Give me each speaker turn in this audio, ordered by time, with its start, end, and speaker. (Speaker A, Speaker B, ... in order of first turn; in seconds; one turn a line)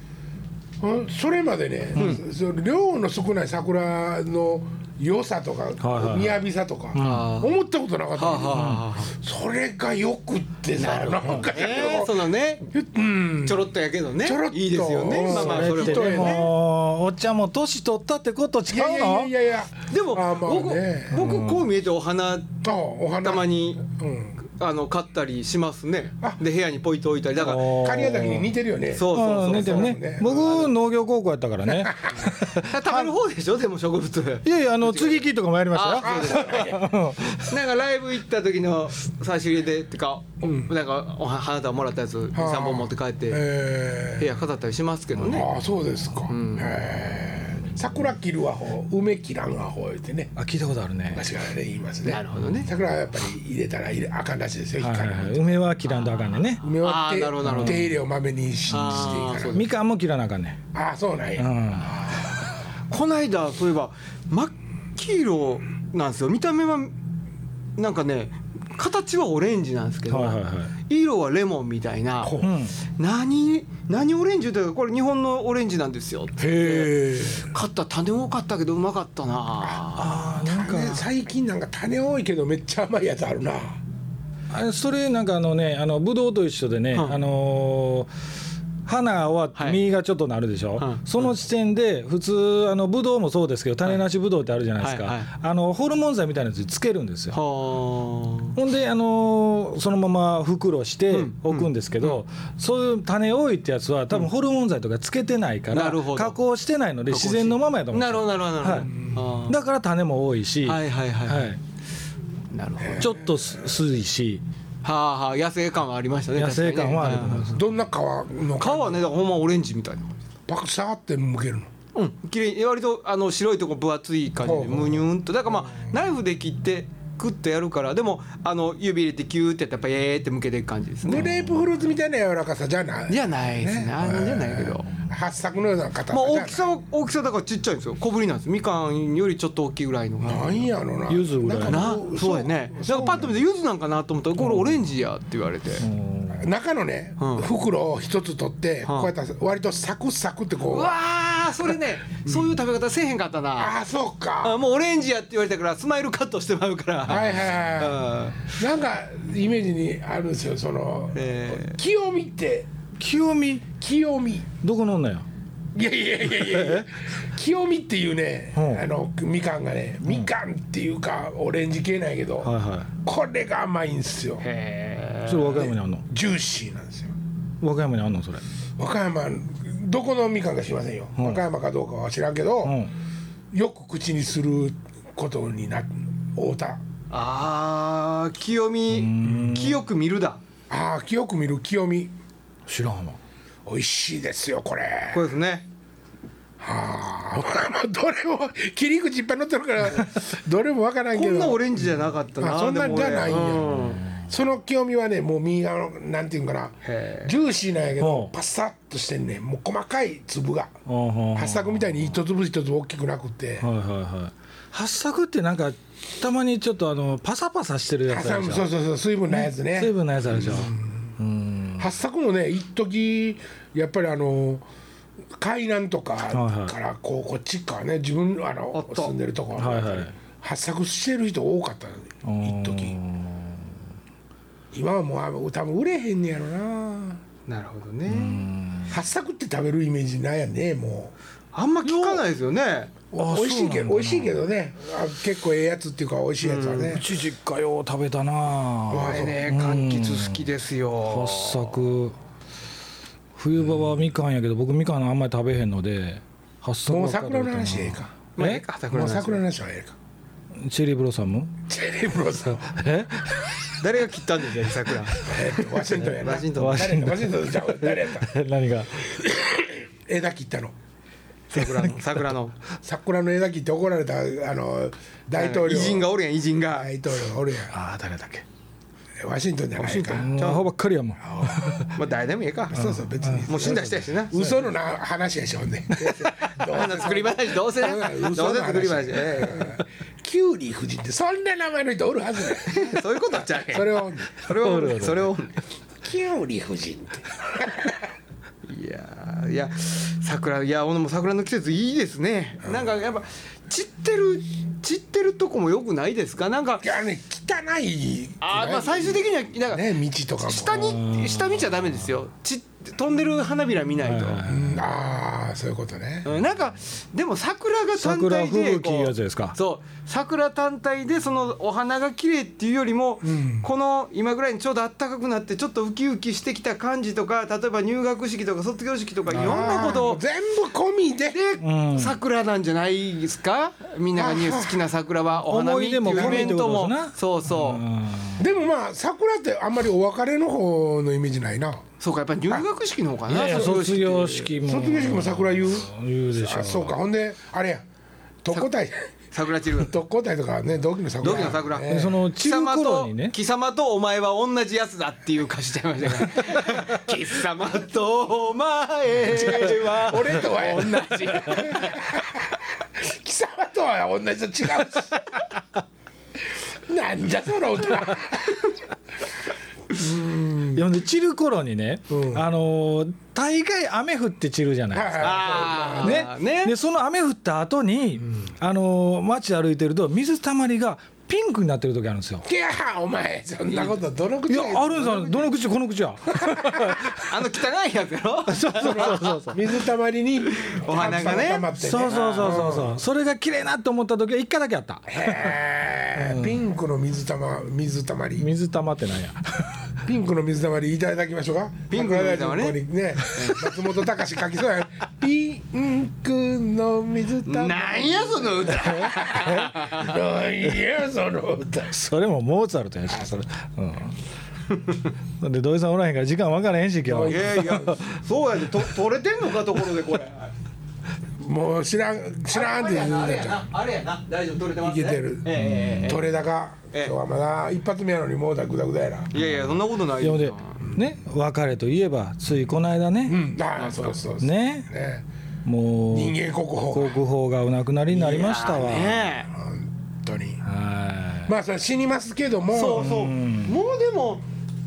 Speaker A: 0.8-13.7
Speaker B: 5.8-6.4
Speaker B: 7.0-7.3
Speaker C: 7.0-7.5
Speaker C: 8.2-9.1
Speaker B: 8.5-8.8
Speaker C: 10.8-12.7
Speaker C: 13.4-16.5
Speaker A: 14.2-16.5
Speaker B: 15.3-19.3
Speaker A: 18.7-21.3
Speaker C: 19.9-22.6
Speaker B: 21.1-21.7
Speaker A: 22.6-24.4
Speaker C: 23.2-23.8
Speaker C: 24.4-27.8
Speaker B: 27.4-28.5
Speaker A: 27.6-30.6
Speaker C: 28.9-30.7
Speaker B: 29.1-33.1
Speaker A: 31.7-32.2
Speaker C: 32.6-36.7
Speaker B: 34.4-37.6
Speaker A: 36.0-36.9
Speaker C: 37.4-43.4
Speaker A: 40.4-40.7
Speaker A: 42.4-44.3
Speaker C: 44.2-45.5
Speaker B: 45.2-45.4
Speaker A: 45.2-50.3
Speaker C: 46.3-46.8
Speaker B: 50.4-51.2
Speaker A: 51.1-55.6
Speaker C: 52.0-52.7
Speaker B: 54.8-56.6
Speaker C: 55.9-57.9
Speaker A: 56.6-59.6
Speaker B: 57.4-57.9
Speaker C: 58.7-59.6
Speaker B: 58.7-60.6
Speaker A: 60.7-61.6
Speaker B: 61.4-62.1
Speaker C: 62.9-66.9
Speaker C: 67.8-72.4
Speaker B: 70.1-70.7
Speaker A: 72.2-72.5
Speaker B: 72.4-72.8
Speaker C: 73.0-80.2
Speaker A: 76.4-77.5
Speaker A: 79.6-83.8
Speaker B: 80.0-81.0
Speaker B: 84.5-88.1
Speaker C: 86.9-87.2
Speaker B: 88.8-97.4
Speaker C: 89.6-89.8
Speaker C: 90.8-91.3
Speaker C: 94.8-95.3
Speaker C: 97.3-98.6
Speaker B: 98.5-108.9
Speaker C: 101.1-102.2
Speaker C: 105.7-106.4
Speaker C: 107.1-109.6
Speaker A: 108.8-109.2
Speaker B: 109.5-111.6
Speaker C: 110.7-111.5
Speaker C: 112.5-113.1
Speaker A: 112.8-113.8
Speaker B: 113.0-114.4
Speaker C: 114.8-117.6
Speaker B: 116.3-117.7
Speaker A: 117.5-119.1
Speaker C: 118.6-120.2
Speaker A: 120.5-121.7
Speaker C: 122.0-131.3
Speaker A: 124.4-125.1
Speaker A: 131.1-136.7
Speaker B: 131.2-131.6
Speaker C: 133.1-134.9
Speaker C: 136.1-140.7
Speaker A: 140.2-143.4
Speaker B: 141.1-142.0
Speaker C: 141.7-145.9
Speaker B: 144.4-144.8
Speaker B: 145.8-146.5
Speaker A: 146.3-150.9
Speaker C: 147.2-147.5
Speaker C: 148.8-149.1
Speaker C: 150.7-153.7
Speaker A: 153.6-154.6
Speaker C: 154.4-158.6
Speaker A: 157.1-162.7
Speaker C: 161.2-161.8
Speaker B: 163.0-163.7
Speaker A: 163.8-164.5
Speaker B: 164.6-165.3
Speaker A: 165.7-172.5
Speaker B: 166.3-166.9
Speaker B: 168.6-168.8
Speaker B: 172.4-172.9
Speaker A: 173.0-174.4
Speaker C: 174.4-175.7
Speaker B: 175.2-176.1
Speaker A: 175.5-177.1
Speaker B: 177.6-178.5
Speaker A: 178.8-182.8
Speaker B: 181.2-181.4
Speaker B: 182.6-182.9
Speaker A: 183.5-186.8
Speaker C: 187.1-190.4
Speaker B: 188.9-189.8
Speaker A: 190.7-192.1
Speaker B: 192.7-193.2
Speaker A: 193.7-195.3
Speaker C: 195.1-195.7
Speaker A: 196.6-201.9
Speaker C: 201.1-204.1
Speaker A: 202.4-210.7
Speaker C: 206.8-207.3
Speaker B: 208.0-208.3
Speaker B: 210.9-212.1
Speaker A: 211.3-213.7
Speaker B: 213.6-218.7
Speaker A: 218.1-221.1
Speaker B: 219.3-221.9
Speaker A: 221.8-224.6
Speaker A: 225.4-233.0
Speaker B: 226.3-226.8
Speaker C: 228.7-229.1
Speaker B: 229.6-230.1
Speaker B: 232.2-233.7
Speaker A: 234.7-237.2
Speaker C: 237.5-238.5
Speaker B: 238.1-238.9
Speaker A: 238.9-241.1
Speaker C: 241.5-242.9
Speaker B: 241.8-242.2
Speaker A: 243.1-247.1
Speaker B: 243.2-244.4
Speaker C: 246.4-246.9
Speaker B: 246.9-250.4
Speaker A: 248.9-249.4
Speaker C: 249.1-251.9
Speaker B: 251.1-252.2
Speaker B: 253.3-258.6
Speaker A: 256.9-258.1
Speaker C: 258.4-259.4
Speaker A: 258.9-260.0
Speaker B: 260.6-261.6
Speaker A: 261.7-262.7
Speaker B: 262.7-263.4
Speaker C: 263.8-267.0
Speaker A: 265.2-268.3
Speaker B: 266.6-269.0
Speaker A: 269.0-270.7
Speaker C: 271.5-272.6
Speaker B: 271.6-272.2
Speaker A: 272.8-276.1
Speaker C: 275.4-276.9
Speaker A: 276.7-277.7
Speaker B: 277.7-278.4
Speaker A: 279.2-280.3
Speaker C: 279.8-280.7
Speaker B: 280.1-281.9
Speaker A: 281.2-281.9
Speaker C: 282.0-284.3
Speaker A: 282.7-293.0
Speaker B: 282.7-284.6
Speaker C: 286.5-289.8
Speaker C: 292.6-295.6
Speaker A: 293.7-294.4
Speaker B: 294.5-295.3
Speaker A: 296.0-298.0
Speaker C: 298.6-306.9
Speaker A: 306.8-311.0
Speaker C: 308.4-309.9
Speaker C: 310.4-314.4
Speaker B: 310.8-312.1
Speaker B: 314.0-314.8
Speaker A: 314.5-316.3
Speaker C: 316.2-330.2
Speaker B: 318.0-319.6
Speaker A: 323.2-323.7
Speaker A: 329.3-331.4
Speaker C: 331.3-337.8
Speaker B: 331.6-332.2
Speaker A: 334.1-334.9
Speaker B: 335.5-338.5
Speaker A: 336.1-336.6
Speaker A: 338.4-341.8
Speaker C: 342.0-344.5
Speaker B: 343.3-347.0
Speaker A: 344.6-347.8
Speaker A: 348.4-349.1
Speaker C: 349.3-349.9
Speaker A: 349.7-352.2
Speaker C: 351.2-351.9
Speaker B: 351.5-353.4
Speaker C: 352.4-362.1
Speaker B: 356.6-356.9
Speaker A: 359.5-365.5
Speaker A: 366.9-368.8
Speaker A: 369.9-370.9
Speaker B: 370.7-375.4
Speaker A: 372.1-372.4
Speaker A: 374.9-376.3
Speaker C: 375.2-376.8
Speaker B: 376.0-382.4
Speaker A: 382.4-385.2
Speaker B: 384.5-387.2
Speaker C: 385.0-385.4
Speaker A: 386.5-386.8
Speaker C: 387.1-389.5
Speaker B: 388.5-389.6
Speaker A: 388.8-392.9
Speaker C: 390.4-392.6
Speaker B: 391.8-395.6
Speaker A: 395.1-398.5
Speaker B: 396.1-396.6
Speaker B: 398.4-399.9
Speaker A: 400.1-411.9
Speaker C: 401.9-403.7
Speaker C: 407.5-410.1
Speaker B: 408.8-409.7
Speaker B: 411.9-414.2
Speaker B: 415.4-418.2
Speaker A: 417.1-417.6
Speaker C: 417.2-420.5
Speaker A: 421.4-423.7
Speaker C: 422.5-426.3
Speaker A: 424.8-429.3
Speaker B: 425.6-426.1
Speaker C: 429.3-430.8
Speaker B: 429.4-433.4
Speaker A: 433.3-435.2
Speaker C: 433.8-434.2
Speaker B: 434.4-434.9
Speaker B: 435.6-436.4
Speaker A: 436.1-437.2
Speaker B: 436.9-439.3
Speaker C: 438.1-439.5
Speaker A: 439.5-440.6
Speaker B: 440.6-441.5
Speaker A: 441.5-443.1
Speaker C: 442.7-444.4
Speaker B: 442.9-443.8